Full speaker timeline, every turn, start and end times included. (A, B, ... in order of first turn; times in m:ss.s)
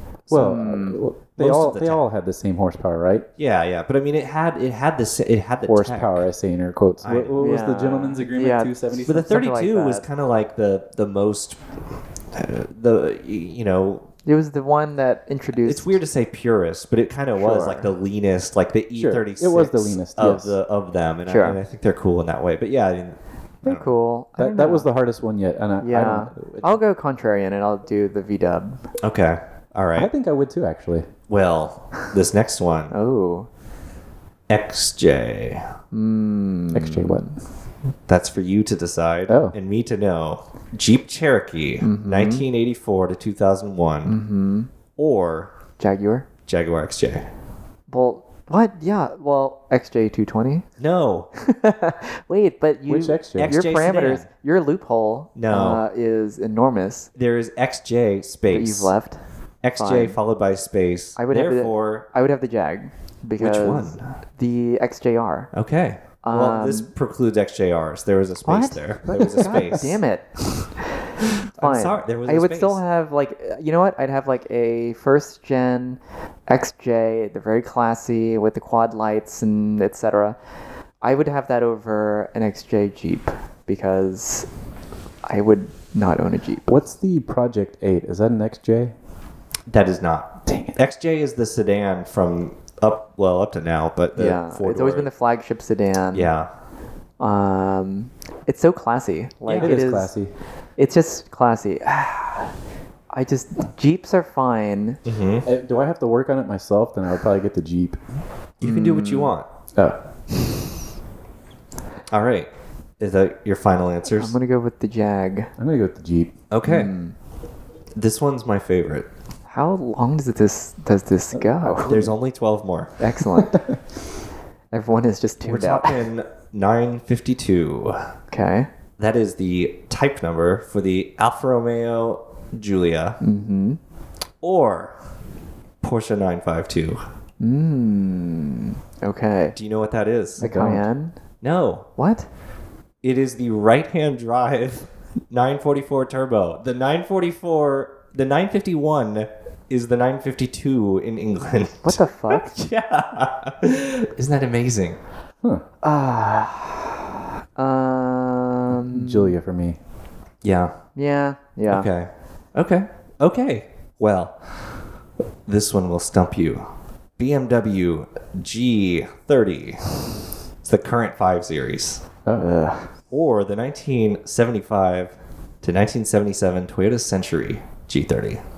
0:00.3-0:03.3 A
0:00.3-0:01.0 B
0:01.4-0:02.0 C
0:03.4-0:06.2 C
0:05.7-0:09.3 A
0:07.0-0:07.5 C
0:07.4-0:10.0 B
0:09.0-0:11.6 C
0:12.3-0:14.1 C
0:14.2-0:16.0 B
0:15.5-0:23.9 C
0:17.4-0:17.9 B
0:18.9-0:20.6 A
0:21.2-0:21.6 B
0:23.6-0:24.9 B
0:24.4-0:26.7 A
0:25.8-0:28.8 B
0:29.0-0:30.1 C
0:29.9-0:31.1 A
0:31.3-0:32.9 C
0:32.9-0:33.5 B
0:34.5-0:35.7 C
0:35.9-0:37.4 B
0:36.7-0:37.3 A
0:38.1-0:44.2 C
0:39.3-0:39.5 A
0:41.8-0:42.4 B
0:44.0-0:44.7 B
0:45.0-0:45.5 C
0:45.8-0:46.3 B
0:46.5-0:47.2 C
0:47.9-0:50.6 B
0:50.8-0:51.3 C
0:51.4-0:57.1 B
0:52.9-0:53.5 A
0:53.4-0:54.2 C
0:55.4-0:55.8 C
0:57.2-0:58.9 C
0:58.5-0:59.2 B
0:59.6-1:02.1 C
0:59.8-1:00.2 B
1:01.2-1:05.5 B
1:03.4-1:04.1 C
1:05.5-1:10.0 C
1:06.2-1:06.9 B
1:08.4-1:20.4 B
1:11.6-1:12.8 C
1:21.0-1:24.5 B
1:25.2-1:26.8 B
1:26.7-1:28.9 A
1:29.7-1:35.1 C
1:30.5-1:30.8 A
1:34.2-1:36.3 B
1:36.1-1:36.5 C
1:37.2-1:40.1 B
1:39.5-1:39.7 C
1:39.6-1:40.3 A
1:40.8-1:42.5 B
1:43.1-1:45.0 B
1:45.0-1:45.4 C
1:45.4-1:48.0 A
1:48.6-1:49.4 C
1:48.6-1:49.3 B
1:52.1-1:54.3 C
1:54.1-1:55.5 B
1:55.6-1:56.4 A
1:56.5-1:56.9 C
1:56.6-1:57.1 B
1:58.0-1:59.1 C
1:59.5-2:02.0 B
2:01.3-2:02.1 A
2:01.8-2:02.9 C
2:03.0-2:03.6 B
2:03.3-2:03.8 A
2:04.7-2:06.0 B
2:05.4-2:08.1 C
2:08.3-2:08.7 B
2:09.0-2:13.2 C
2:13.2-2:13.8 B
2:14.4-2:14.9 C
2:15.8-2:17.0 C
2:17.4-2:19.5 B
2:19.5-2:20.4 C
2:20.4-2:20.8 A
2:20.4-2:21.1 B
2:21.4-2:21.9 C
2:22.0-2:22.3 B
2:23.0-2:35.0 C
2:31.8-2:32.5 B
2:35.8-2:39.4 B
2:38.7-2:39.8 A
2:40.4-2:40.8 C
2:41.0-2:41.9 B
2:41.7-2:44.4 C
2:45.5-2:46.6 C
2:47.2-2:52.0 C
2:52.4-2:52.9 B
2:53.1-2:58.4 C